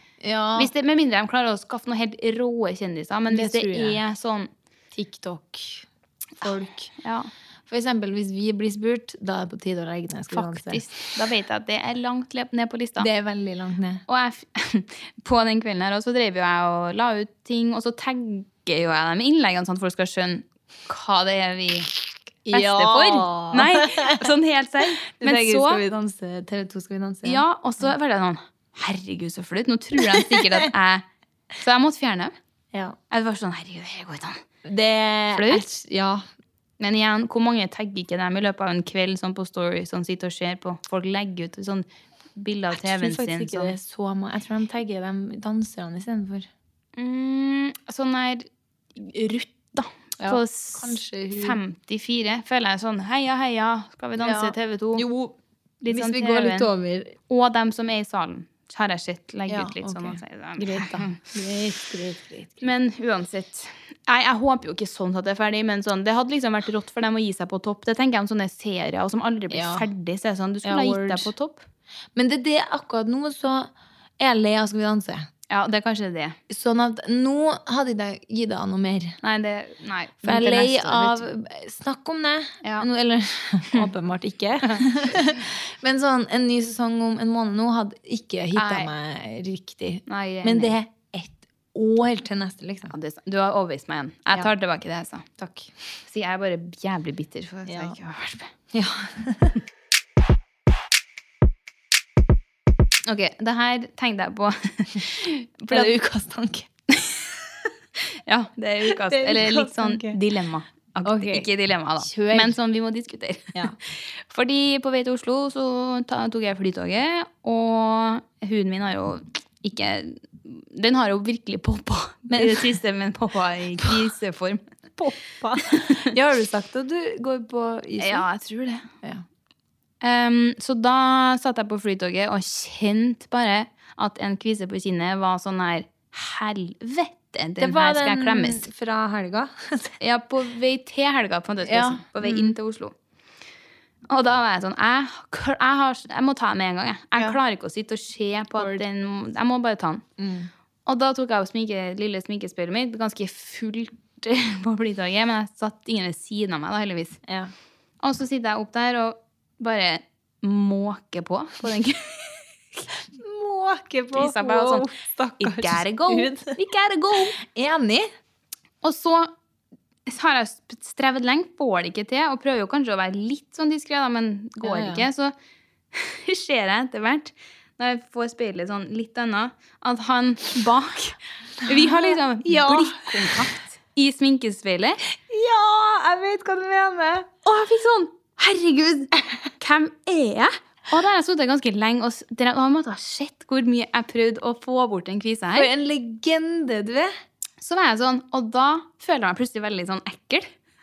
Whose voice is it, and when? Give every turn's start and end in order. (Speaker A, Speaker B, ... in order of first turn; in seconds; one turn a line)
Speaker A: 0.2-0.7
Speaker B: 0.6-4.5
Speaker A: 3.3-4.0
Speaker A: 4.9-5.9
Speaker A: 6.4-6.9
Speaker B: 6.4-7.3
Speaker A: 7.7-11.2
Speaker B: 10.3-13.1
Speaker A: 13.0-14.0
Speaker B: 14.1-21.9
Speaker A: 22.5-24.3
Speaker B: 22.5-25.8
Speaker A: 25.1-27.4
Speaker B: 27.2-31.1
Speaker A: 30.0-30.7
Speaker B: 31.6-32.3
Speaker B: 33.1-34.4
Speaker A: 34.6-36.2
Speaker B: 35.3-35.6
Speaker B: 36.8-43.7
Speaker A: 42.7-46.5
Speaker B: 47.0-55.0
Speaker A: 50.2-51.6
Speaker A: 54.2-55.4
Speaker B: 55.8-56.7
Speaker A: 55.9-57.2
Speaker B: 57.3-61.2
Speaker A: 59.5-62.6
Speaker B: 62.6-71.7
Speaker A: 69.5-69.8
Speaker A: 70.6-71.3
Speaker A: 72.1-75.3
Speaker B: 75.5-76.3
Speaker A: 76.5-79.2
Speaker B: 79.2-81.2
Speaker A: 80.2-92.9
Speaker B: 84.6-85.2
Speaker B: 88.5-88.9
Speaker B: 90.1-90.7
Speaker B: 92.9-95.2
Speaker A: 95.4-95.7
Speaker B: 96.0-98.5
Speaker A: 97.7-98.0
Speaker A: 98.7-99.6
Speaker B: 103.0-105.9
Speaker A: 105.7-106.7
Speaker B: 106.9-107.3
Speaker B: 108.0-124.6
Speaker A: 108.8-110.2
Speaker A: 111.0-111.5
Speaker A: 112.0-112.5
Speaker A: 122.3-122.7
Speaker A: 125.0-128.2
Speaker B: 125.7-126.1
Speaker B: 128.0-128.9
Speaker B: 130.0-138.7
Speaker A: 137.6-139.9
Speaker B: 140.0-142.9
Speaker A: 141.6-142.6
Speaker B: 144.1-150.0
Speaker A: 148.6-148.8
Speaker A: 150.2-150.5
Speaker B: 150.8-157.2
Speaker A: 157.2-157.5
Speaker B: 158.0-162.8
Speaker A: 163.1-166.6
Speaker B: 164.1-164.9
Speaker B: 165.4-167.3
Speaker A: 167.3-168.1
Speaker B: 168.8-169.3
Speaker B: 170.1-175.3
Speaker A: 174.6-175.1
Speaker B: 175.9-185.0
Speaker A: 181.6-183.5
Speaker A: 185.2-187.3
Speaker B: 187.4-195.7
Speaker A: 195.5-197.1
Speaker B: 197.6-200.5